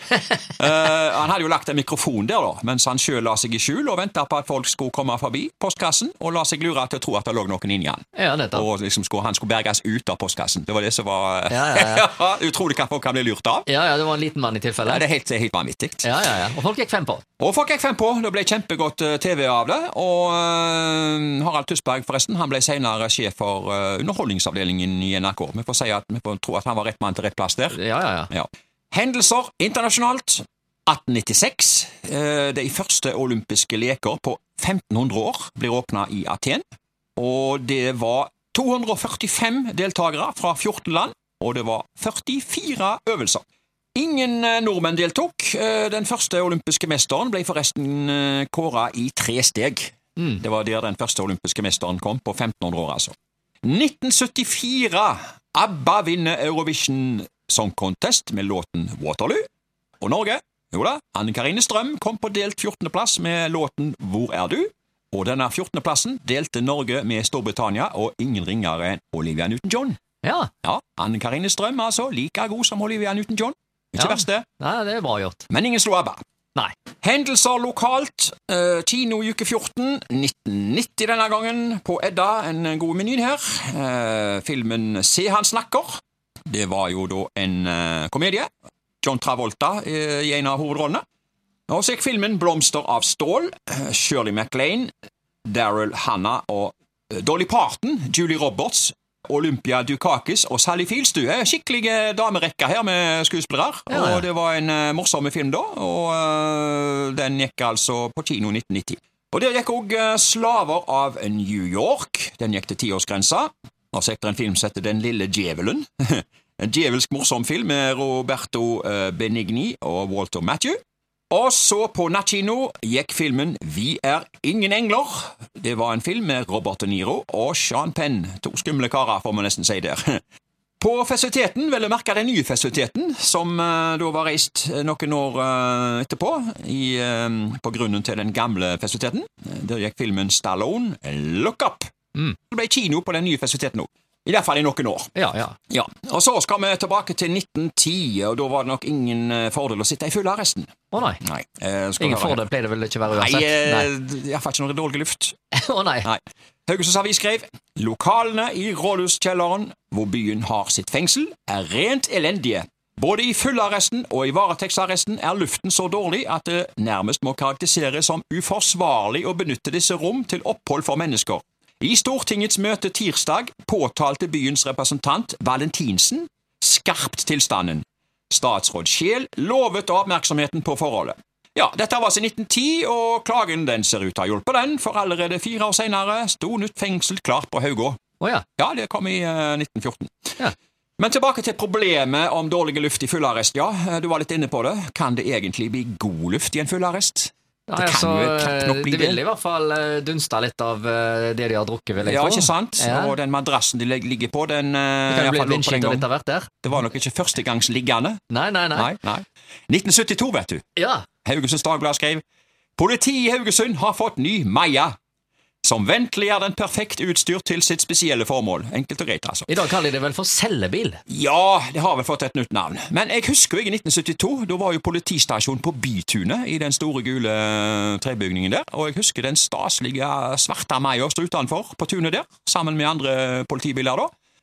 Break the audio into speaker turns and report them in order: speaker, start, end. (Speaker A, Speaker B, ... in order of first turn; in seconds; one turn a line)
Speaker A: 0.6-13.7
Speaker B: 8.2-8.6
Speaker B: 11.5-12.1
Speaker B: 13.7-15.0
Speaker A: 14.8-16.1
Speaker B: 16.0-17.2
Speaker A: 17.4-27.8
Speaker B: 27.7-28.3
Speaker A: 28.3-36.6
Speaker A: 37.2-43.4
Speaker A: 43.9-59.5
Speaker A: 60.0-70.0
Speaker B: 70.2-70.5
Speaker A: 70.6-74.5
Speaker B: 74.0-75.4
Speaker A: 75.5-76.2
Speaker A: 77.0-88.5
Speaker A: 89.0-91.0
Speaker A: 91.7-94.9
Speaker A: 95.5-120.8
Speaker B: 103.9-104.2
Speaker A: 121.3-130.2
Speaker A: 130.8-141.9
Speaker A: 142.5-145.1
Speaker B: 145.1-145.5
Speaker A: 145.7-152.4
Speaker B: 150.9-151.2
Speaker B: 152.0-153.9
Speaker A: 153.1-155.3
Speaker B: 155.5-156.1
Speaker A: 156.0-188.0
Speaker B: 188.2-188.4
Speaker A: 188.6-190.3
Speaker A: 191.0-199.2
Speaker B: 197.7-203.1
Speaker A: 202.0-206.1
Speaker B: 205.1-206.5
Speaker A: 206.6-208.2
Speaker B: 208.3-208.9
Speaker A: 208.7-210.6
Speaker B: 210.8-211.1
Speaker A: 211.2-212.2
Speaker A: 212.8-214.9
Speaker A: 215.6-219.6
Speaker B: 219.5-221.0
Speaker A: 221.1-234.1